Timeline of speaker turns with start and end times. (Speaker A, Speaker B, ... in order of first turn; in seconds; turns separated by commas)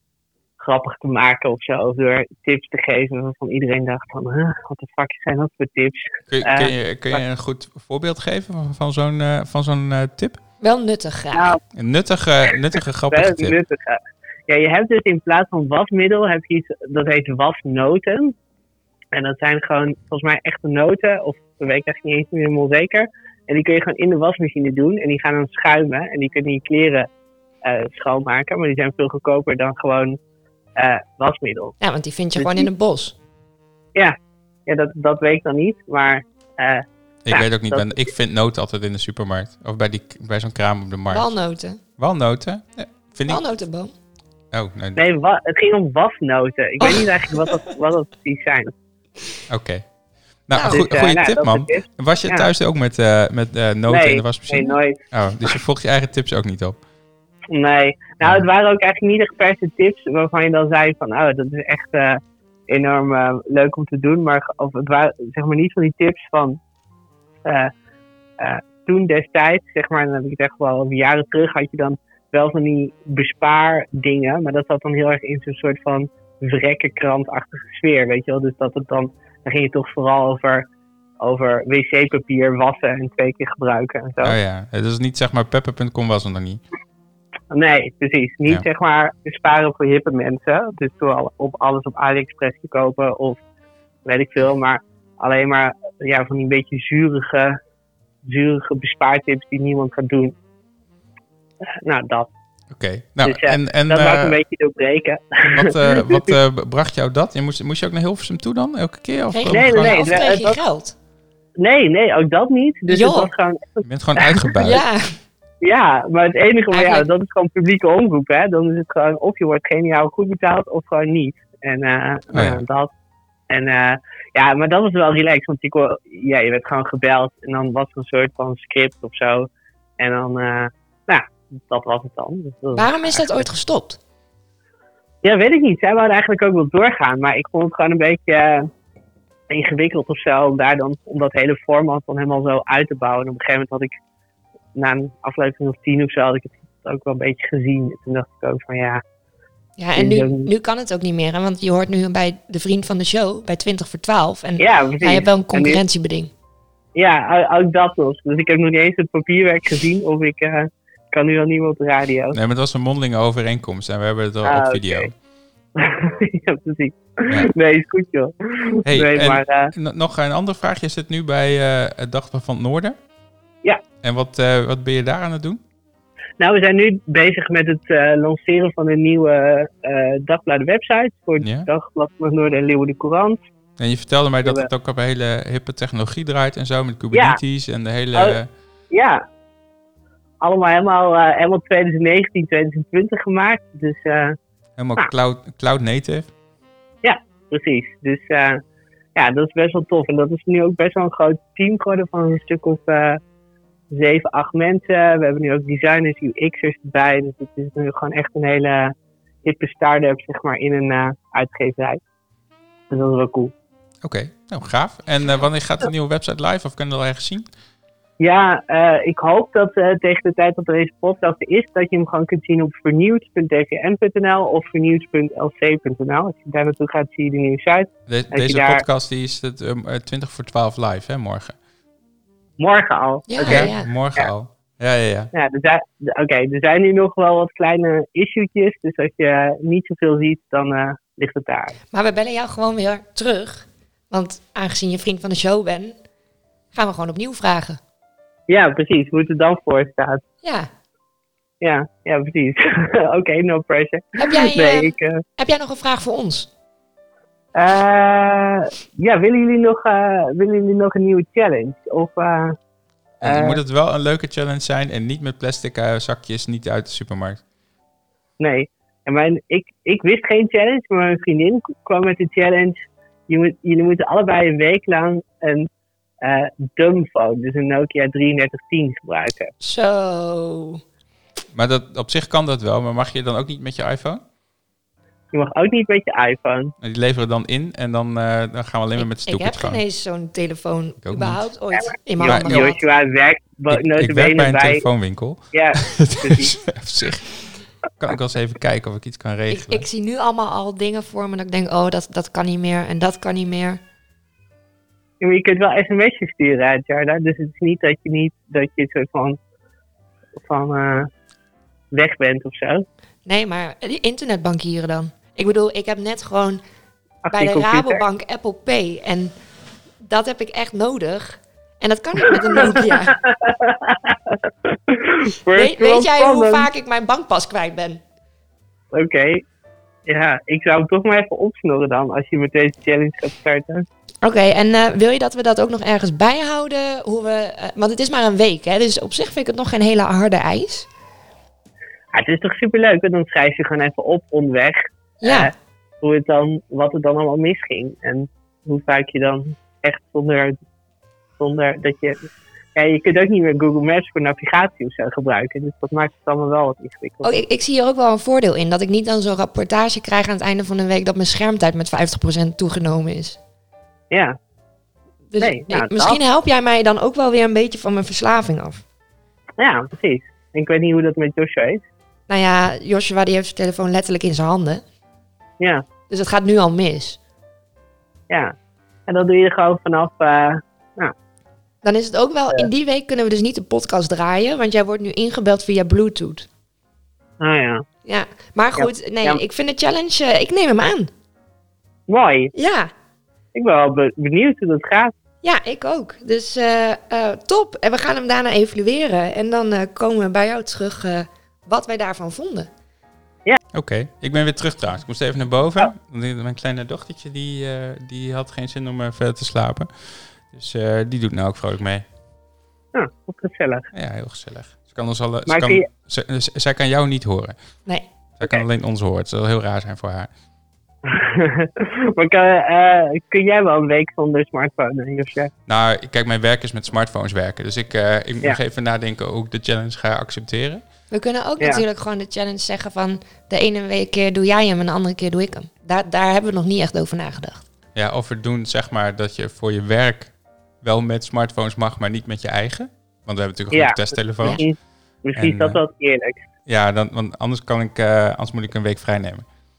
Speaker A: 0.6-7.2, Speaker B: 6.3-10.4, Speaker C: 10.6-11.6, Speaker A: 11.3-11.6, Speaker B: 11.7-13.6, Speaker A: 13.1-18.3, Speaker A: 19.1-27.1, Speaker A: 27.6-30.2, Speaker A: 30.8-31.8, Speaker C: 31.8-33.1, Speaker A: 32.4-32.7, Speaker A: 33.9-38.1, Speaker B: 37.2-41.3, Speaker C: 41.1-41.8, Speaker B: 42.0-43.4, Speaker C: 43.3-43.9, Speaker B: 44.5-45.0, Speaker A: 45.0-48.7, Speaker C: 46.8-47.5, Speaker B: 49.5-49.8, Speaker B: 50.5-56.8, Speaker C: 50.5-50.8, Speaker A: 50.6-52.5, Speaker A: 53.9-55.0, Speaker A: 57.5-66.6, Speaker A: 67.4-67.7, Speaker A: 68.4-80.7, Speaker A: 81.2-84.4, Speaker B: 84.2-86.6, Speaker A: 87.5-93.4, Speaker A: 94.0-97.6, Speaker A: 98.2-100.3, Speaker A: 101.7-102.3, Speaker B: 102.7-104.4, Speaker A: 103.2-106.4, Speaker B: 105.5-110.2, Speaker C: 109.3-110.9, Speaker A: 109.5-110.6, Speaker A: 111.6-114.7, Speaker C: 112.9-113.3, Speaker B: 113.8-114.8, Speaker C: 114.6-115.1, Speaker A: 115.6-122.9, Speaker C: 116.7-117.0, Speaker B: 122.3-122.6, Speaker A: 123.5-129.5, Speaker A: 130.0-133.4, Speaker C: 132.7-134.0, Speaker A: 135.2-138.7, Speaker A: 139.5-143.9, Speaker A: 144.7-149.0, Speaker C: 149.8-156.3, Speaker A: 149.9-150.5, Speaker A: 154.6-155.8, Speaker A: 156.9-162.4, Speaker B: 162.3-165.1, Speaker A: 164.4-165.1, Speaker A: 165.8-169.7, Speaker B: 168.8-173.0, Speaker B: 174.0-175.6, Speaker A: 176.4-183.4, Speaker B: 181.4-181.7, Speaker B: 183.8-188.5, Speaker A: 187.1-187.4, Speaker A: 188.9-189.2, Speaker A: 190.4-194.4, Speaker B: 194.8-196.3, Speaker A: 197.0-198.6, Speaker A: 199.2-203.2, Speaker A: 203.9-212.0, Speaker A: 212.9-213.5, Speaker B: 214.0-217.5, Speaker A: 218.2-228.8, Speaker B: 228.1-231.6, Speaker A: 232.6-234.3, Speaker C: 233.3-233.9, Speaker B: 233.4-235.3, Speaker A: 235.3-241.8, Speaker C: 241.9-245.9, Speaker C: 246.7-247.8, Speaker A: 248.5-250.2, Speaker C: 250.4-250.7, Speaker A: 251.6-255.2, Speaker C: 254.2-256.5, Speaker A: 257.5-262.6, Speaker B: 263.2-267.4, Speaker A: 263.2-263.6, Speaker A: 268.4-275.7, Speaker A: 276.2-279.5, Speaker C: 279.6-280.8, Speaker B: 281.5-284.2, Speaker A: 285.3-286.7, Speaker B: 286.8-289.8, Speaker C: 289.0-292.8, Speaker B: 291.0-291.4, Speaker A: 291.8-294.8, Speaker B: 292.2-292.7, Speaker B: 293.7-299.9, Speaker A: 295.5-296.6, Speaker C: 299.5-303.8, Speaker A: 305.2-309.4, Speaker A: 310.4-311.1, Speaker A: 311.9-312.8, Speaker C: 313.2-316.6, Speaker A: 317.2-318.0, Speaker C: 317.3-319.3, Speaker C: 320.0-323.1, Speaker A: 322.6-326.7, Speaker C: 325.5-328.0, Speaker A: 328.9-329.4, Speaker A: 330.1-333.9, Speaker C: 334.2-340.9, Speaker A: 342.1-350.6, Speaker C: 345.2-345.5, Speaker A: 351.4-357.4, Speaker C: 357.2-363.4, Speaker A: 364.1-364.4, Speaker C: 365.3-368.8, Speaker A: 365.4-366.2, Speaker A: 369.6-371.8, Speaker C: 372.3-374.8, Speaker C: 376.1-377.2, Speaker A: 379.1-381.1, Speaker C: 381.8-386.5, Speaker A: 387.4-387.8, Speaker C: 388.1-391.1, Speaker A: 388.8-389.4, Speaker A: 392.1-392.5, Speaker C: 392.5-392.9, Speaker A: 393.5-395.1, Speaker C: 395.4-402.7, Speaker B: 403.7-412.1, Speaker A: 412.9-413.9, Speaker B: 413.9-417.6, Speaker A: 415.5-415.8, Speaker B: 418.4-420.3, Speaker A: 421.0-425.5, Speaker B: 425.7-430.8, Speaker C: 431.1-437.6, Speaker B: 437.9-444.6, Speaker A: 443.7-446.4, Speaker B: 445.4-445.8, Speaker B: 446.6-449.4